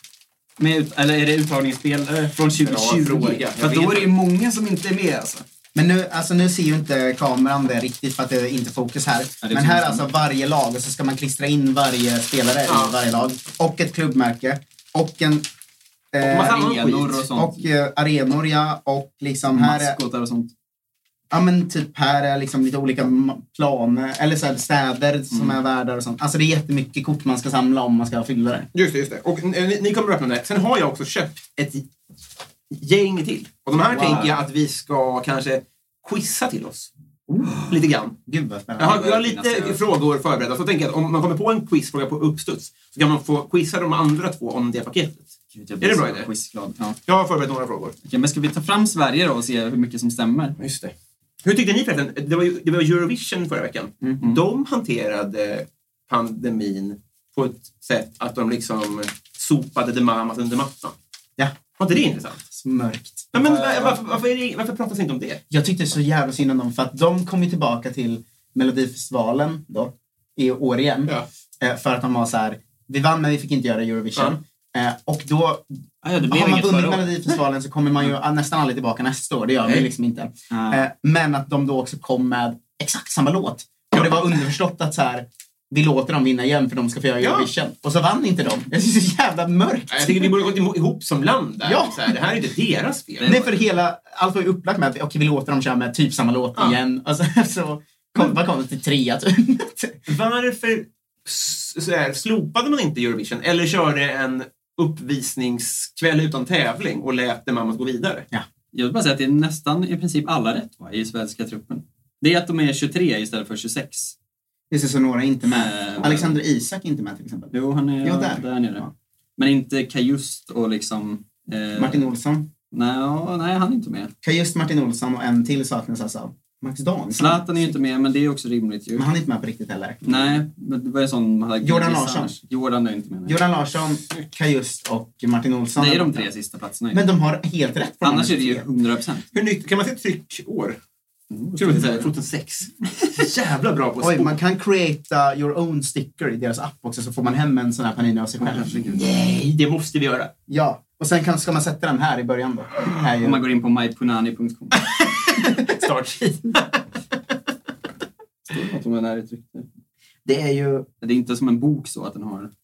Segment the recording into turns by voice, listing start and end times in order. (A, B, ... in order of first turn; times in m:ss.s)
0:00.6-0:05.4 A
0:02.4-0:04.1 B
0:05.7-0:15.4 C
0:09.4-0:10.0 A
0:12.7-0:13.0 B
0:16.1-0:20.0 C
0:16.2-0:17.2 B
0:16.6-0:17.6 A
0:19.5-0:20.5 A
0:21.3-0:28.7 C
0:25.3-0:25.6 A
0:28.7-0:31.8 B
0:32.7-0:36.9 B
0:33.9-0:34.3 C
0:37.3-0:37.6 C
0:37.7-0:38.2 B
0:38.3-0:39.2 C
0:38.8-0:46.3 B
0:39.0-0:39.8 A
0:45.5-0:47.0 A
0:47.1-0:48.0 B
0:48.0-0:50.6 A
0:50.6-0:50.9 B
0:51.4-1:00.9 B
1:01.8-1:02.4 B
1:02.5-1:04.0 C
1:03.3-1:05.4 B
1:05.5-1:15.6 C
1:16.0-1:17.1 A
1:16.2-1:30.5 C
1:20.5-1:20.8 A
1:27.2-1:27.5 B
1:29.9-1:33.3 B
1:31.6-1:32.2 C
1:33.2-1:40.0 C
1:40.1-1:48.3 B
1:48.7-1:54.1 A
1:54.7-1:58.9 C
1:55.6-1:56.4 A
1:57.5-2:02.0 A
2:01.7-2:02.5 C
2:02.7-2:04.1 A
2:04.2-2:07.7 C
2:07.2-2:09.0 A
2:08.9-2:10.4 C
2:10.0-2:13.4 A
2:11.6-2:12.4 C
2:13.2-2:16.3 C
2:15.8-2:17.0 A
2:16.9-2:18.6 C
2:18.0-2:19.2 A
2:19.3-2:20.8 B
2:21.3-2:22.1 A
2:21.6-2:24.4 B
2:24.0-2:29.0 C
2:28.4-2:29.0 A
2:28.8-2:30.3 B
2:30.5-2:33.4 C
2:33.2-2:34.7 A
2:35.7-2:36.8 B
2:38.5-2:39.7 A
2:40.2-2:40.9 C
2:41.0-2:42.5 A